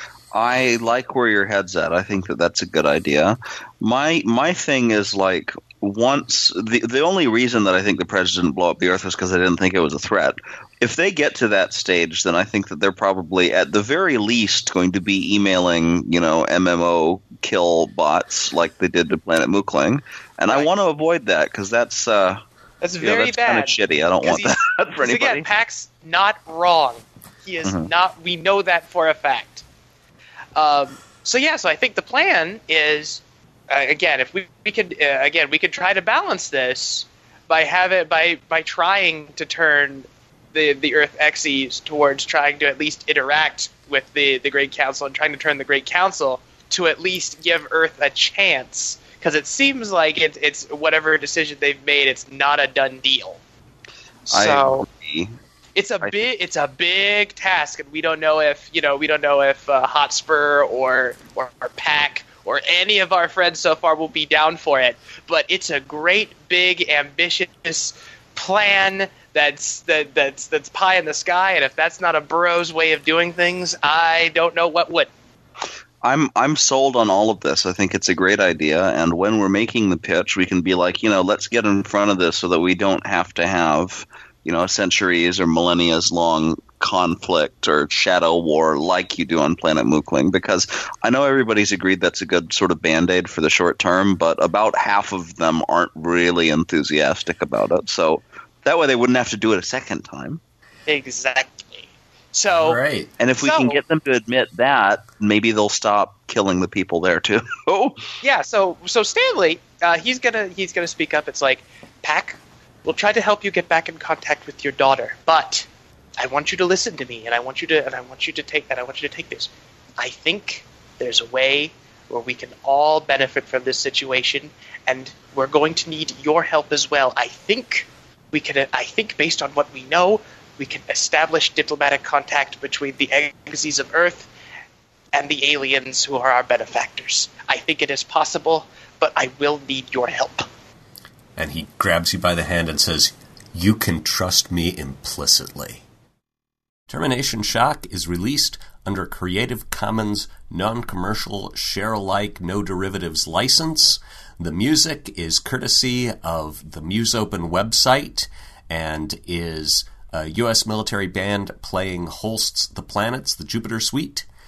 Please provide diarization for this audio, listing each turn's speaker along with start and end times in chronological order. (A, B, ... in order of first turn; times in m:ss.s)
0:00.3-0:22.4 A
0:22.8-0:29.6 B
0:23.0-0:25.4 A
0:27.6-0:27.9 A
0:30.6-0:53.4 B
0:54.3-0:54.8 B
0:54.3-0:55.3 A
0:55.8-1:15.1 B
1:16.0-1:40.4 A
1:40.9-1:42.8 B
1:42.5-1:43.1 C
1:43.2-1:48.0 A
1:43.4-1:43.8 B
1:48.2-1:55.7 B
1:56.2-2:14.3 B
2:15.1-2:20.5 B
2:21.4-2:25.8 C
2:26.9-2:44.2 C